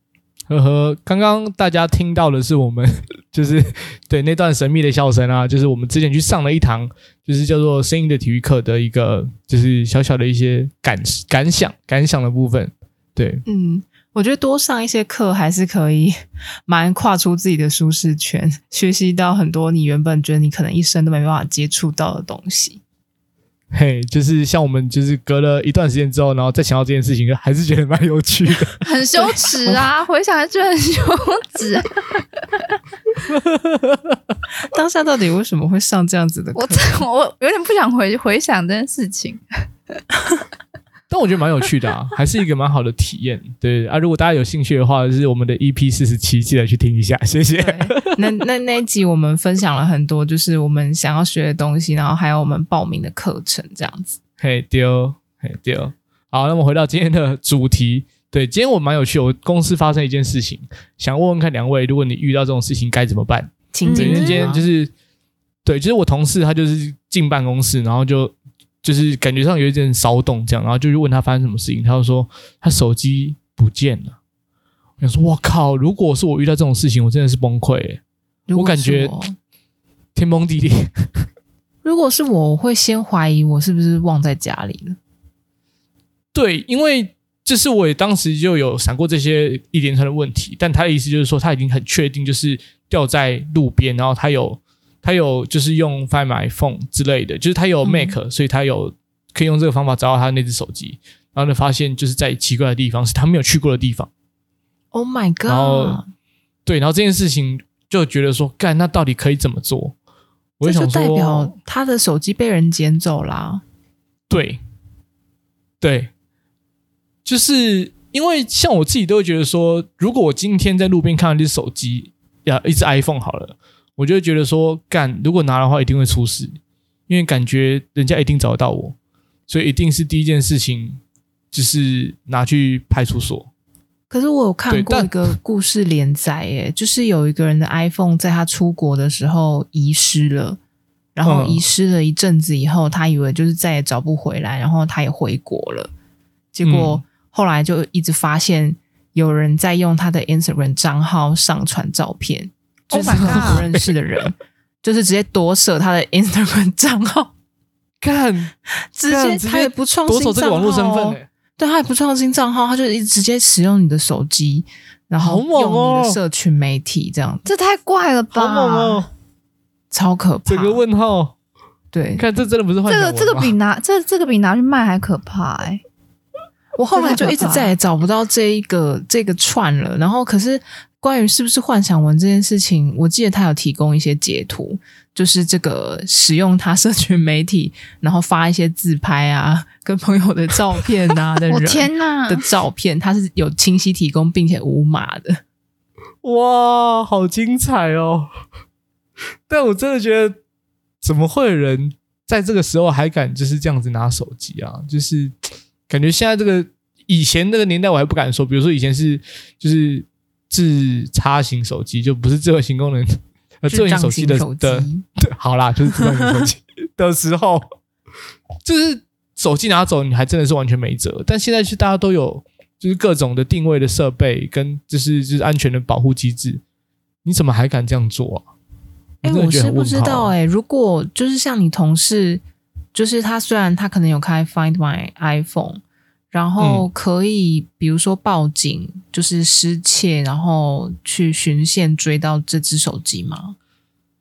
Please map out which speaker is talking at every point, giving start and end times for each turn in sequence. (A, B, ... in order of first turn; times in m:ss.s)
0:00.5-0:13.4 A
0:13.5-0:22.8 B
0:23.7-0:28.8 A
0:28.8-0:32.7 C
0:29.2-0:29.9 B
0:33.3-0:34.2 A
0:34.6-0:37.0 B
0:36.5-0:39.4 C
0:41.1-0:48.2 A
0:47.6-0:47.9 C
0:48.2-0:54.2 B
0:54.4-1:04.9 A
1:03.7-1:04.6 B
1:03.8-1:04.5 C
1:05.6-1:14.2 A
1:15.0-1:18.0 A
1:18.5-1:19.3 B
1:18.5-1:19.1 A
1:20.1-1:21.2 A
1:21.8-1:25.0 B
1:26.3-1:44.1 A
1:37.8-1:38.2 B
1:44.9-1:46.1 B
1:45.5-1:46.0 A
1:46.6-1:49.9 A
1:50.6-1:51.6 A
1:50.6-1:53.6 B
1:54.3-1:54.6 A
1:55.8-1:56.1 A
1:57.2-2:06.6 A
2:07.1-2:08.9 A
2:09.5-2:11.0 A
2:11.5-2:13.5 A
2:14.1-2:20.6 B
2:14.7-2:15.3 A
2:21.2-2:25.9 B
2:21.2-2:21.6 A
2:26.5-2:37.3 B
2:26.6-2:27.0 A
2:32.9-2:33.7 C
2:33.1-2:33.7 A
2:38.0-2:38.5 A
2:38.8-2:47.5 B
2:39.1-2:41.2 A
2:45.2-2:46.2 A
2:47.4-2:49.0 C
2:48.3-2:49.1 A
2:49.9-2:50.8 B
2:50.4-2:51.3 A
2:51.9-2:52.2 B
2:52.2-2:53.5 A
2:52.9-2:55.8 C
2:56.8-3:15.4 B
2:56.9-2:57.7 C
3:11.5-3:12.4 C
3:16.2-3:18.3 A
3:19.5-3:20.4 A
3:21.0-3:25.3 A
3:25.9-3:37.6 A
3:33.7-3:35.0 B
3:38.6-3:46.6 A
3:47.2-3:48.4 A
3:49.2-3:50.3 A
3:49.2-3:52.4 B
3:52.9-3:55.8 B
3:56.3-4:03.6 B
3:56.6-3:56.8 A